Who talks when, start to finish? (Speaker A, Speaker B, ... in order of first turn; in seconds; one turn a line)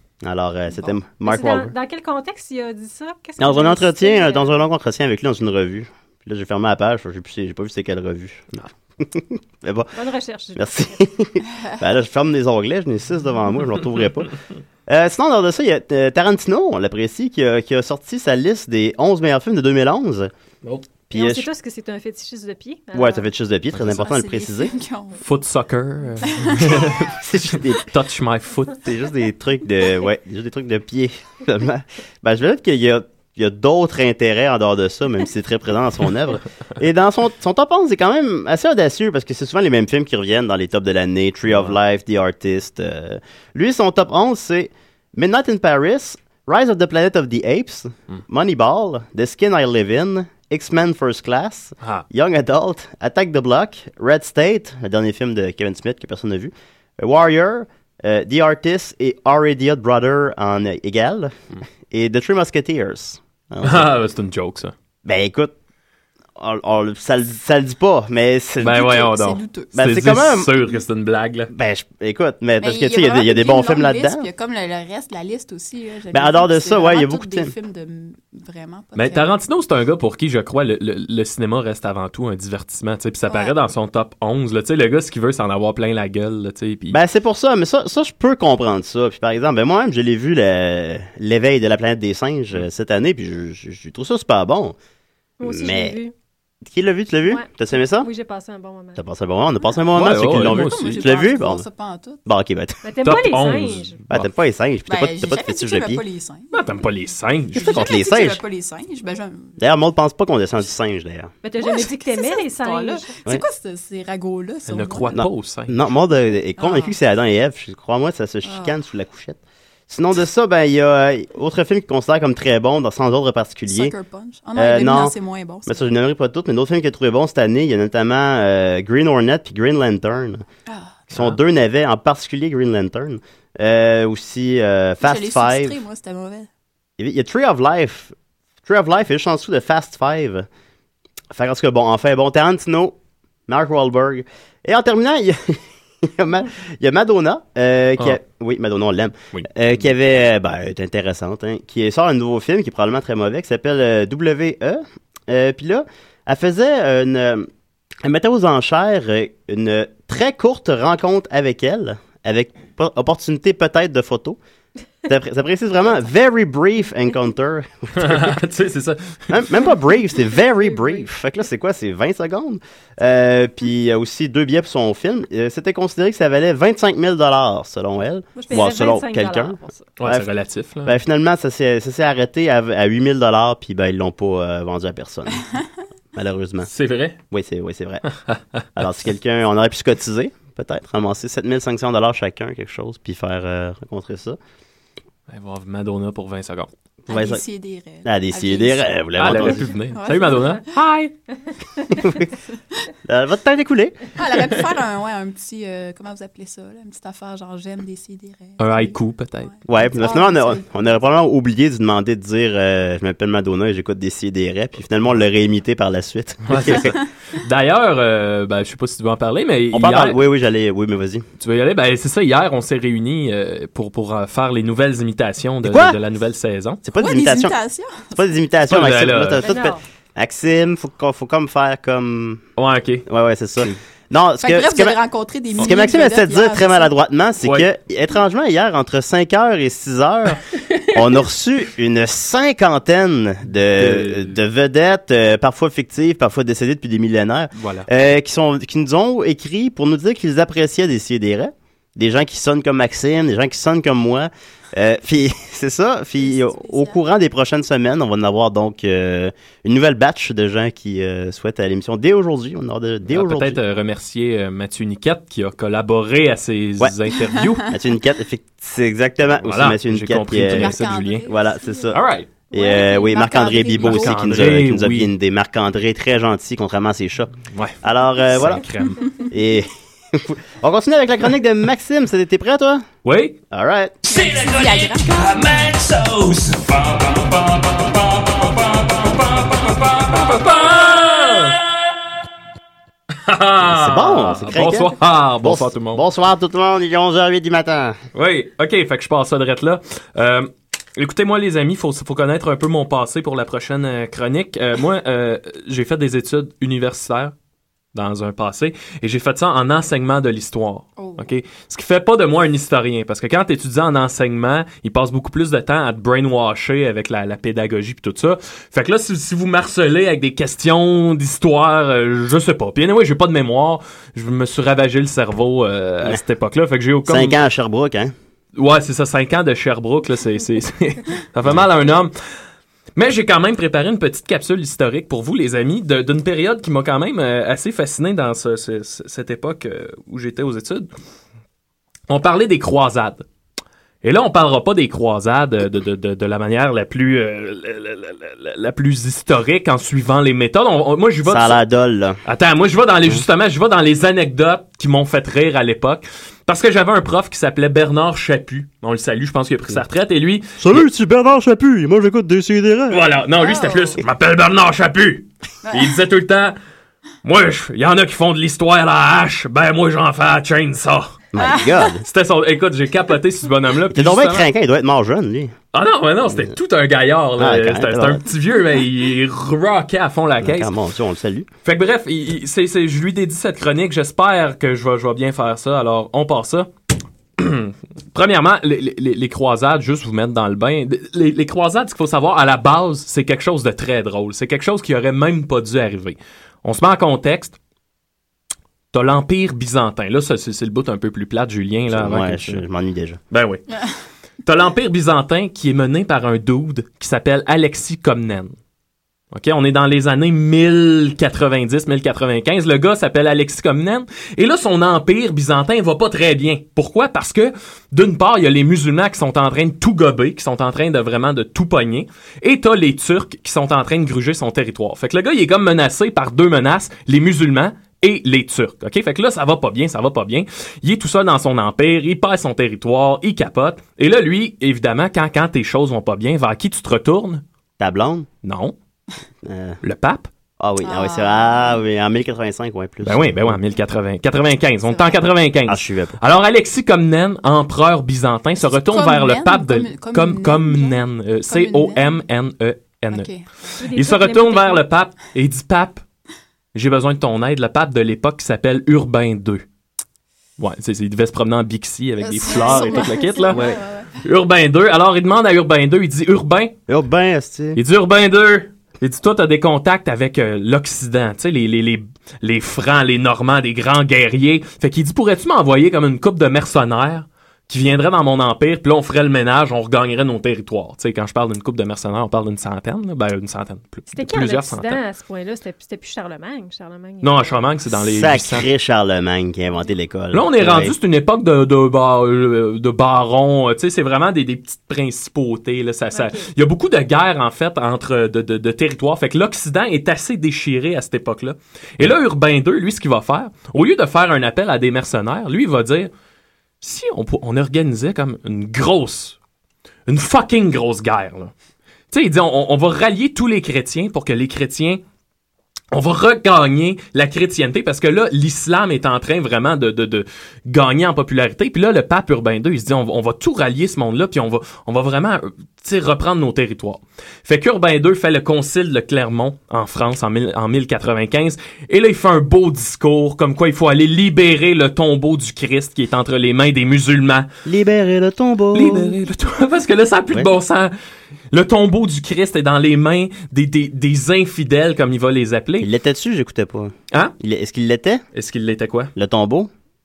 Speaker A: 0.2-1.7
Speaker B: 1.2-4.6
Speaker A: 3.4-9.9
Speaker B: 9.9-10.9
Speaker A: 10.6-14.3
Speaker A: 14.9-20.3
Speaker A: 21.1-21.5
Speaker B: 21.1-23.3
Speaker A: 22.9-24.8
Speaker C: 23.8-25.2
Speaker D: 25.2-28.8
Speaker C: 26.2-26.7
Speaker A: 26.7-27.9
Speaker A: 28.8-63.9
Speaker D: 41.5-41.8
Speaker D: 63.6-64.7
Speaker A: 65.0-65.5
Speaker A: 66.4-68.9
Speaker D: 68.6-71.5
Speaker C: 68.7-69.7
Speaker A: 69.7-70.5
Speaker A: 71.5-74.3
Speaker C: 72.6-79.3
Speaker A: 76.1-77.5
Speaker D: 78.9-87.0
Speaker C: 83.3-83.5
Speaker A: 86.9-94.8
Speaker B: 95.4-96.1
Speaker A: 95.4-96.0
Speaker A: 96.7-98.1
Speaker B: 97.3-99.0
Speaker A: 99.0-101.6
Speaker D: 99.9-101.1
Speaker C: 100.3-102.2
Speaker A: 102.2-102.8
Speaker B: 102.8-104.0
Speaker D: 103.0-104.3
Speaker A: 104.1-106.0
Speaker C: 104.9-106.7
Speaker D: 106.5-107.9
Speaker C: 107.5-109.5
Speaker A: 107.6-108.4
Speaker A: 109.6-111.3
Speaker B: 111.4-113.1
Speaker C: 111.6-115.2
Speaker D: 114.7-115.7
Speaker A: 115.1-119.4
Speaker C: 116.6-117.0
Speaker C: 118.4-118.8
Speaker A: 119.9-123.9
Speaker C: 123.7-125.9
Speaker A: 124.5-125.1
Speaker A: 125.7-130.4
Speaker C: 130.7-131.1
Speaker A: 131.1-135.8
Speaker C: 135.0-136.5
Speaker A: 137.0-138.1
Speaker A: 138.7-140.5
Speaker A: 141.3-142.9
Speaker A: 143.5-157.5
Speaker A: 158.0-164.4
Speaker A: 165.1-168.4
Speaker D: 167.9-169.3
Speaker A: 169.3-180.3
Speaker B: 170.6-171.0
Speaker B: 178.3-179.9
Speaker D: 180.0-180.9
Speaker A: 180.8-185.5
Speaker A: 186.1-186.7
Speaker D: 186.7-187.2
Speaker A: 187.3-188.0
Speaker A: 188.8-194.4
Speaker D: 195.3-196.7
Speaker A: 197.1-197.4
Speaker C: 197.1-200.6
Speaker A: 198.0-199.7
Speaker D: 199.2-201.1
Speaker A: 201.9-202.2
Speaker A: 203.0-204.1
Speaker C: 204.2-210.7
Speaker D: 208.6-209.5
Speaker A: 209.7-216.9
Speaker D: 216.5-220.2
Speaker A: 219.7-221.2
Speaker D: 221.4-226.8
Speaker A: 225.6-226.0
Speaker A: 226.8-227.6
Speaker C: 226.9-228.3
Speaker A: 228.1-232.4
Speaker D: 228.7-229.5
Speaker B: 229.4-229.8
Speaker D: 232.6-233.1
Speaker A: 233.1-235.0
Speaker C: 234.4-236.9
Speaker A: 235.6-263.6
Speaker D: 237.4-237.7
Speaker D: 243.5-244.4
Speaker D: 247.5-247.9
Speaker C: 256.2-257.0
Speaker D: 263.1-267.7
Speaker A: 267.7-272.0
Speaker D: 269.4-271.3
Speaker C: 270.4-271.9
Speaker D: 271.9-272.3
Speaker C: 272.5-274.4
Speaker A: 272.5-278.6
Speaker D: 273.7-275.1
Speaker D: 277.5-279.1
Speaker A: 279.3-282.9
Speaker D: 283.0-283.4
Speaker A: 283.5-284.0
Speaker C: 284.0-285.5
Speaker E: 284.1-286.8
Speaker D: 289.9-291.6
Speaker D: 293.1-296.0
Speaker A: 293.6-298.0
Speaker D: 298.1-307.3
Speaker D: 307.9-327.4
Speaker C: 311.0-311.3
Speaker A: 327.1-328.1
Speaker D: 328.6-332.1
Speaker D: 332.9-340.9
Speaker D: 342.1-343.2
Speaker D: 344.0-351.6
Speaker A: 351.2-352.2
Speaker D: 352.2-360.9
Speaker A: 360.6-363.0
Speaker D: 362.9-366.6
Speaker C: 363.4-364.0
Speaker C: 365.6-365.9
Speaker D: 367.2-371.2
Speaker A: 371.3-372.0
Speaker C: 371.4-371.8
Speaker D: 372.0-374.5
Speaker A: 373.9-375.5
Speaker D: 375.7-380.7
Speaker A: 377.4-378.2
Speaker A: 380.4-381.5
Speaker D: 381.6-386.7
Speaker D: 387.4-397.6
Speaker D: 398.9-402.6
Speaker A: 401.9-403.2
Speaker D: 403.3-403.6
Speaker D: 404.4-408.5
Speaker D: 409.3-437.4
Speaker A: 437.8-438.3
Speaker D: 438.4-438.7
Speaker A: 439.4-439.8
Speaker D: 439.8-440.3
Speaker A: 440.6-443.6
Speaker C: 440.8-441.8
Speaker D: 443.0-453.3
Speaker C: 444.9-445.2
Speaker A: 445.7-446.2
Speaker C: 448.6-452.1
Speaker C: 453.1-453.4
Speaker B: 453.8-454.8
Speaker D: 453.9-456.0
Speaker D: 456.7-459.6
Speaker D: 460.6-466.7
Speaker C: 462.2-464.1
Speaker A: 466.9-467.8
Speaker D: 467.8-485.0
Speaker B: 484.1-487.6
Speaker D: 487.2-488.7
Speaker A: 488.0-490.9
Speaker D: 490.3-506.1
Speaker B: 496.1-496.4
Speaker D: 506.8-509.4
Speaker D: 510.1-511.5
Speaker D: 512.1-515.0
Speaker D: 515.9-537.5
Speaker A: 537.6-539.1
Speaker D: 538.7-540.9
Speaker D: 541.5-545.9
Speaker A: 545.8-548.2
Speaker D: 548.3-549.1
Speaker A: 549.1-549.7